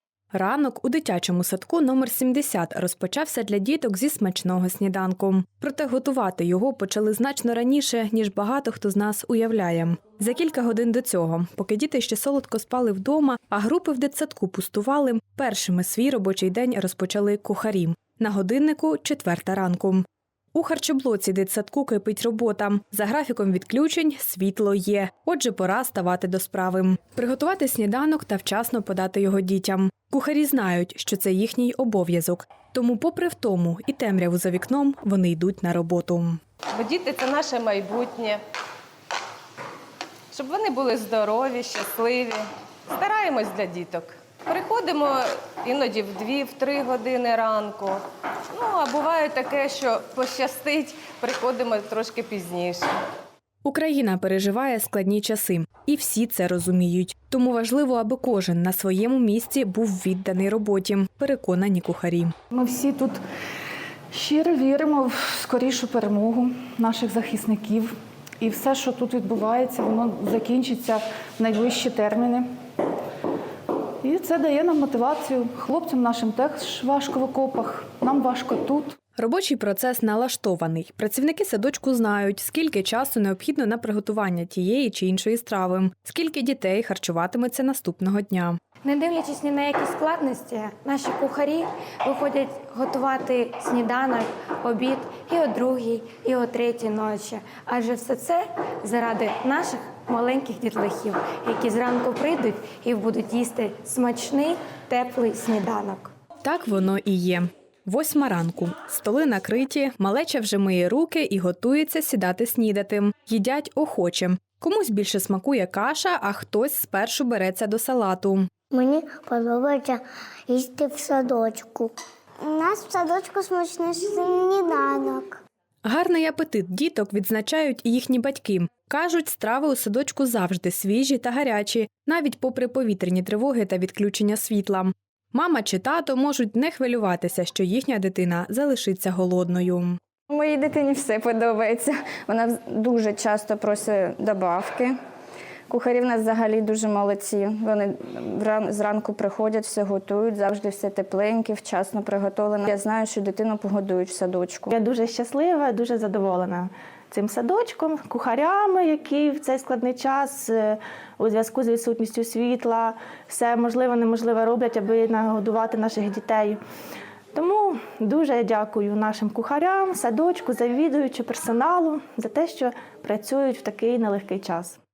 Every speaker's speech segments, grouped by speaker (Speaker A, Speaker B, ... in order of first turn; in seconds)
Speaker A: 0.3-36.4, 53.6-62.3, 79.2-88.6, 106.4-118.5, 125.8-140.0
Speaker B: 36.7-38.4, 40.3-42.4, 42.9-48.0, 48.5-52.9
Speaker C: 62.5-63.2, 64.1-72.4, 74.0-78.9
Speaker D: 88.8-106.1
Speaker E: 118.7-125.4
Speaker F: 140.3-144.9, 145.7-154.7
Speaker G: 154.7-166.6, 167.3-174.8